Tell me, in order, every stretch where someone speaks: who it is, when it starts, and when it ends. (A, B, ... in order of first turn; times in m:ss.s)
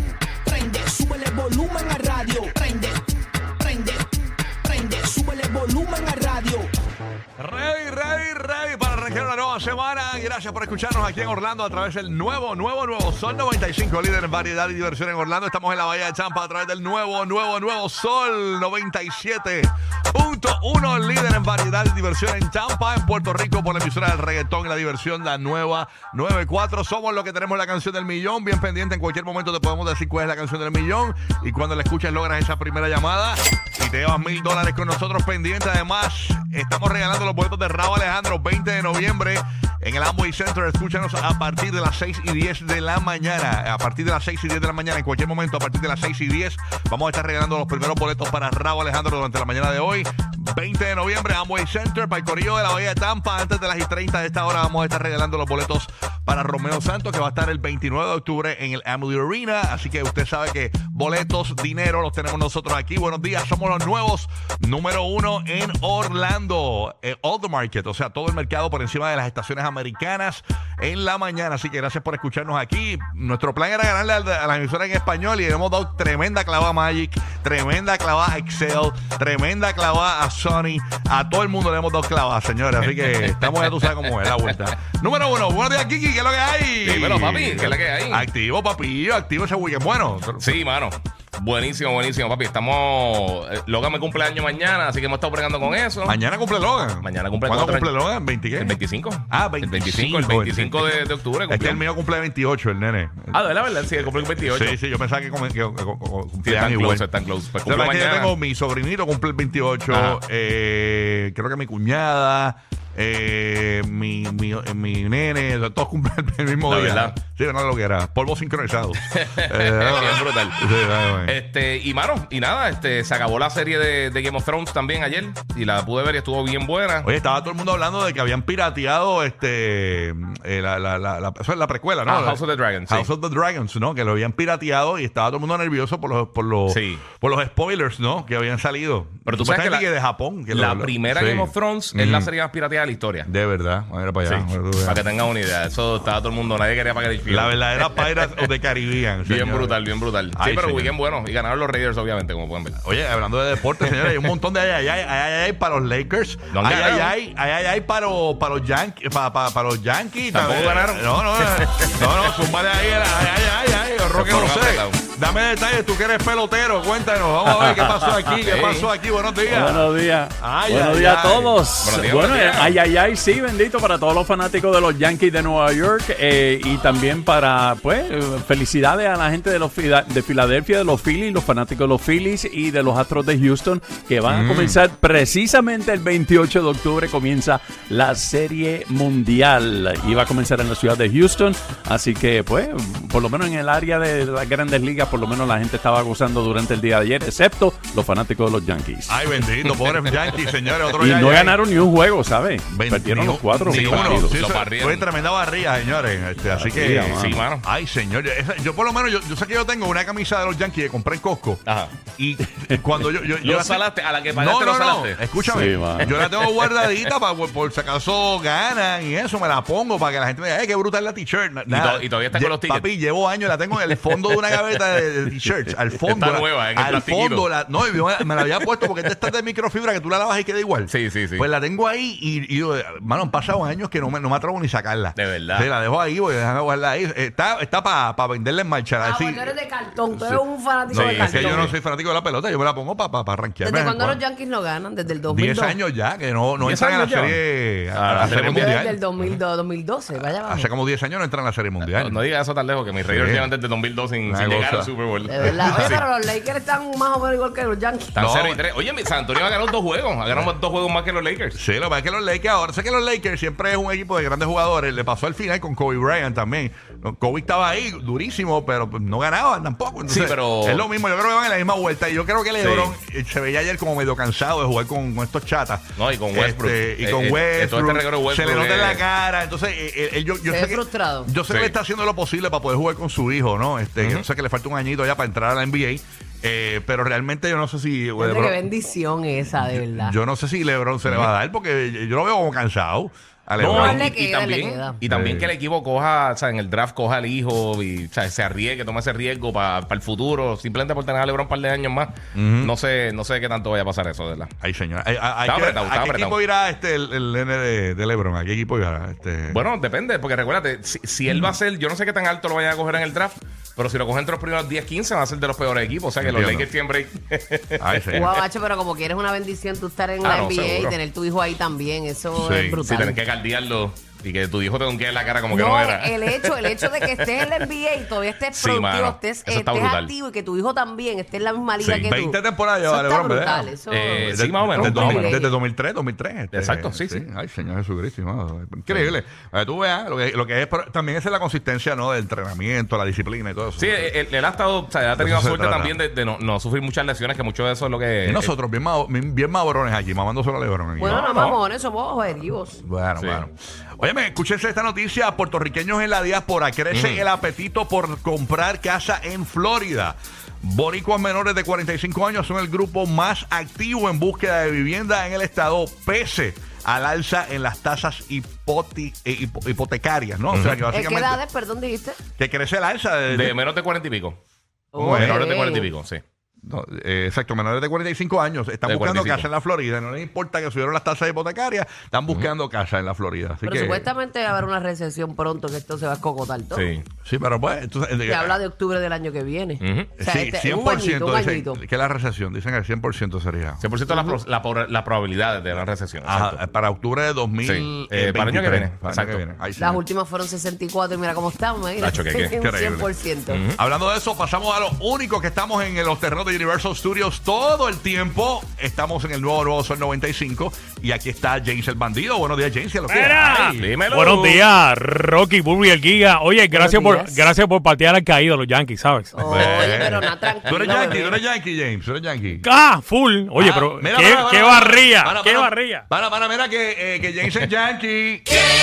0:00.5-0:03.0 A
0:03.6-0:04.0 A
0:04.7-0:06.6 A
0:07.4-1:30.6 B
1:22.9-1:24.4 C
1:26.8-1:28.2 C
1:30.4-1:36.2 C
1:36.0-1:38.8 B
1:37.0-1:38.0 C
1:38.5-1:41.8 C
1:39.3-1:43.4 B
1:43.3-1:44.8 C
1:44.0-1:47.1 B
1:46.4-1:48.3 C
1:47.6-2:01.3 B
1:49.9-1:50.2 C
1:56.7-1:57.1 C
1:59.1-2:00.6 C
2:01.2-2:07.1 C
2:07.0-2:22.3 B
2:12.0-2:13.1 C
2:16.7-2:17.0 C
2:19.2-2:19.9 C
2:20.5-2:23.3 C
2:23.2-2:25.0 B
2:24.2-2:28.4 C
2:27.3-2:29.8 B
2:29.2-2:32.8 C
2:30.3-2:30.9 B
2:32.8-2:51.6 B
2:33.8-2:34.3 C
2:36.5-2:37.1 C
2:40.3-2:42.2 C
2:44.1-2:45.0 C
2:48.3-2:48.9 C
2:49.4-3:19.3 D
2:51.8-2:52.8 C
3:04.3-3:04.8 B
3:19.1-3:21.6 B
3:20.9-3:24.4 D
3:22.7-3:31.6 B
3:23.7-3:25.1 C
3:26.5-3:27.4 D
3:26.8-3:27.6 C
3:31.6-3:31.9 C
3:32.2-3:59.5 B
3:33.4-3:37.1 C
3:35.4-3:36.1 D
3:41.7-3:42.9 C
3:46.1-3:47.5 C
3:50.9-3:51.4 C
3:55.2-3:55.7 C
3:59.0-4:01.7 E
4:00.1-4:04.2 B
4:00.9-4:01.7 C
4:03.6-4:05.8 E
4:05.3-4:09.0 B
4:06.6-4:07.4 C
4:07.9-4:09.4 C
4:08.2-4:10.7 E
4:10.4-4:12.2 B
4:11.8-4:16.0 C
4:13.0-4:13.5 B
4:14.2-4:15.9 B
4:15.3-4:18.2 E
4:18.1-4:21.6 C
4:18.2-4:18.6 B
4:21.6-4:48.6 B
4:30.0-4:30.8 C
4:32.6-4:32.9 C
4:36.0-4:39.0 C
4:40.5-4:41.3 E
4:41.5-4:41.7 C
4:44.0-4:44.2 C
4:48.2-4:50.1 E
4:49.5-4:54.1 B
4:53.6-5:04.5 C
4:53.6-4:55.0 E
4:55.1-4:55.5 B
5:02.3-5:02.7 B
5:04.6-5:09.6 B
5:05.4-5:06.4 C
5:09.5-5:18.3 C
5:11.3-5:11.6 B
5:16.2-5:16.7 B
5:17.8-5:18.3 B
5:18.1-5:23.2 E
5:20.2-5:21.0 C
5:22.4-5:22.8 B
5:22.8-5:27.5 C
5:25.5-5:35.6 E
5:28.5-5:30.1 C
5:31.8-5:44.1 B
5:33.9-5:35.4 C
5:36.5-5:37.2 C
5:43.8-5:48.5 C
5:45.2-5:46.0 B
5:48.2-5:51.2 B
5:51.0-5:52.8 E
5:51.1-5:51.6 C
5:52.8-6:11.4 B
5:53.2-5:53.4 C
5:56.9-5:57.2 C
6:10.5-6:10.8 C
6:10.9-6:12.2 E
6:12.4-6:13.6 B
6:13.3-6:14.4 C
6:14.9-6:15.9 E
6:15.0-6:15.4 B
6:15.1-6:16.2 C
6:16.6-6:24.1 B
6:18.8-6:19.5 C
6:23.6-6:26.9 E
6:26.7-6:27.0 C
6:27.2-6:28.6 B
6:28.3-6:31.8 E
6:29.8-6:30.1 C
6:30.2-6:33.8 B
6:33.8-6:36.6 C
6:34.1-6:34.4 E
6:36.2-6:40.0 B
6:37.6-6:39.4 C
6:39.8-6:43.6 E
6:42.0-6:42.5 C
6:42.6-6:43.1 B
6:43.5-6:43.8 C
6:43.7-6:53.9 B
6:53.1-6:59.4 F
6:53.8-6:54.6 C
6:56.7-6:57.5 E
6:59.3-7:01.4 E
6:59.4-7:02.6 B
6:59.6-7:00.1 C
7:02.6-7:06.0 F
7:03.6-7:08.6 B